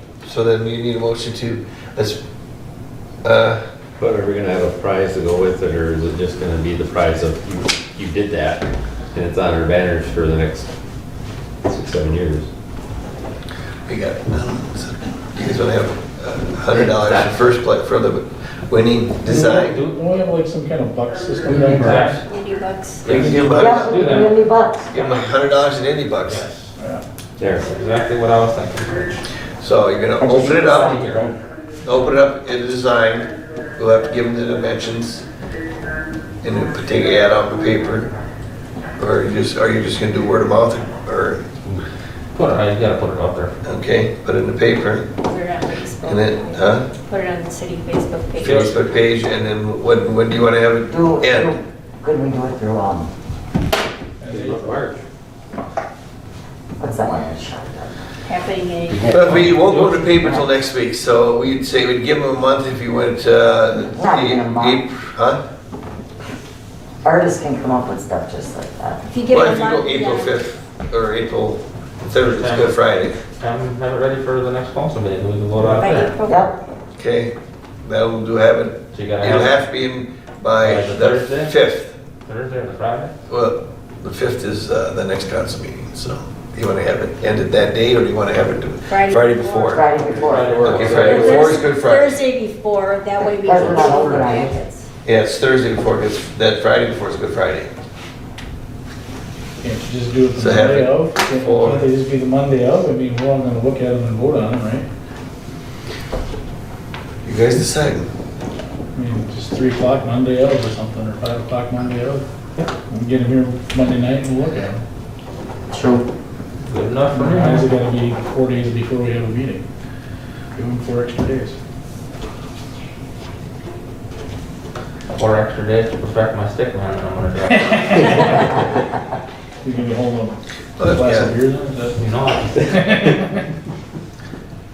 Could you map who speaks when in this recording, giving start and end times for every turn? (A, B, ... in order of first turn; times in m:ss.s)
0:00.2-0:02.2 A
0:03.2-0:03.6 A
0:04.0-0:10.7 B
0:11.6-0:12.5 B
0:13.9-0:19.8 A
0:16.7-0:17.4 B
0:19.3-0:20.0 C
0:19.3-0:22.2 D
0:21.4-0:22.2 C
0:21.9-0:23.1 E
0:23.0-0:24.1 A
0:23.0-0:24.3 C
0:23.2-0:23.6 D
0:23.6-0:24.9 F
0:24.9-0:26.4 A
0:24.9-0:25.3 C
0:26.2-0:26.7 C
0:26.8-0:27.0 D
0:27.4-0:27.7 B
0:27.6-0:29.2 C
0:29.6-0:31.0 A
0:30.2-0:31.4 F
0:30.7-0:31.2 C
0:31.8-0:35.2 A
0:36.4-0:38.1 A
0:39.0-0:41.5 A
0:42.3-0:43.5 C
0:43.6-0:45.1 A
0:45.2-0:48.8 E
0:46.0-0:46.9 A
0:48.4-0:51.5 A
0:50.9-0:53.1 F
0:54.2-0:54.7 D
0:54.3-0:55.0 B
0:56.8-0:57.9 F
0:58.2-0:59.1 E
0:58.9-0:59.5 B
0:59.1-1:05.4 A
0:59.2-1:00.2 C
1:00.2-1:00.4 F
1:03.7-1:04.8 F
1:07.0-1:09.0 F
1:09.1-1:10.4 E
1:09.3-1:13.2 A
1:12.2-1:12.8 C
1:13.3-1:16.1 C
1:15.6-1:16.5 E
1:16.2-1:16.5 F
1:17.0-1:22.0 A
1:18.9-1:19.6 C
1:20.6-1:21.5 C
1:22.2-1:23.1 C
1:23.3-1:29.9 A
1:28.9-1:29.8 E
1:29.7-1:31.0 F
1:30.1-1:31.6 C
1:30.6-1:31.1 B
1:30.6-1:32.2 A
1:30.8-1:34.8 E
1:33.4-1:34.5 F
1:35.0-1:37.7 A
1:39.6-1:44.8 D
1:40.4-1:41.9 A
1:47.2-1:48.1 A
1:48.9-1:52.2 D
1:52.9-1:54.8 D
1:55.7-1:56.0 F
1:56.6-1:57.7 C
1:57.1-1:59.6 D
2:00.5-2:01.6 D
2:05.2-2:08.5 C
2:09.6-2:12.0 D
2:10.8-2:11.3 A
2:12.0-2:13.2 C
2:12.6-2:13.4 D